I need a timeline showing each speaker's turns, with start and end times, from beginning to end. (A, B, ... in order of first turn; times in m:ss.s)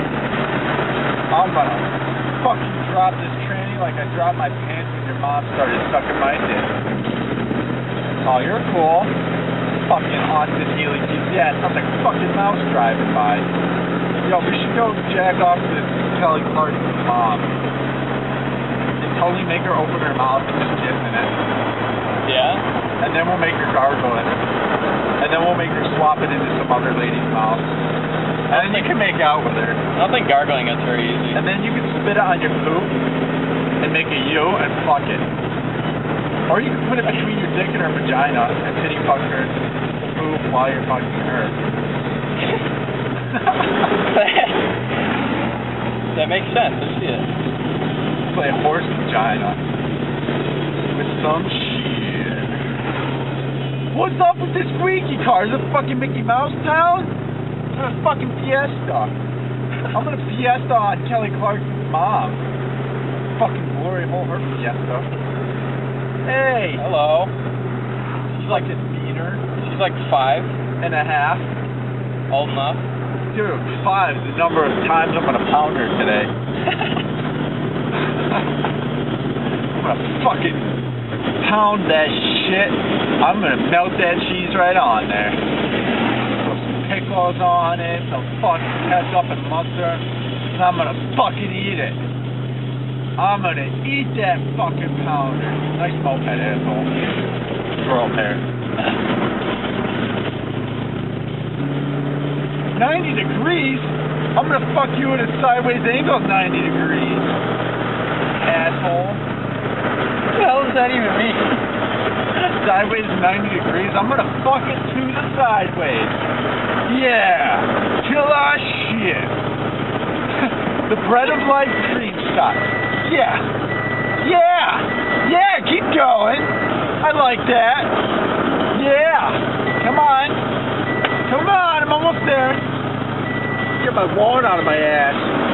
0:01.3-0:06.8 A
0:08.2-0:09.1 A
0:09.8-0:13.5 A
0:14.2-0:17.6 A
0:19.0-0:21.4 A
0:22.3-0:22.6 B
0:23.0-0:24.5 A
0:25.2-0:27.7 A
0:28.5-0:29.8 A
0:28.5-0:29.1 B
0:29.9-0:31.4 B
0:31.3-0:33.0 A
0:33.8-0:35.3 A
0:36.5-0:41.8 A
0:43.4-0:43.9 A
0:44.0-0:44.8 B
0:46.1-0:47.3 B
0:48.3-0:49.6 A
0:50.9-0:52.6 A
0:53.9-0:57.1 A
0:57.7-0:59.2 A
0:59.9-1:02.5 A
1:03.4-1:05.1 A
1:06.2-1:06.8 A
1:06.8-1:07.3 B
1:08.3-1:08.7 B
1:08.4-1:09.4 A
1:09.6-1:10.6 B
1:10.8-1:11.5 A
1:12.3-1:12.9 B
1:13.3-1:16.3 A
1:18.1-1:18.4 A
1:19.8-1:20.8 A
1:21.4-1:25.4 A
1:26.3-1:32.1 A
1:33.2-1:36.9 A
1:37.8-1:38.4 A
1:42.7-1:47.4 A
1:48.4-1:49.2 A
1:50.3-1:51.6 B
1:52.4-1:56.2 A
1:56.9-1:59.4 A
2:00.4-2:03.5 A
2:04.2-2:07.9 A
2:08.7-2:10.4 A
2:11.2-2:12.6 A
2:13.8-2:15.3 A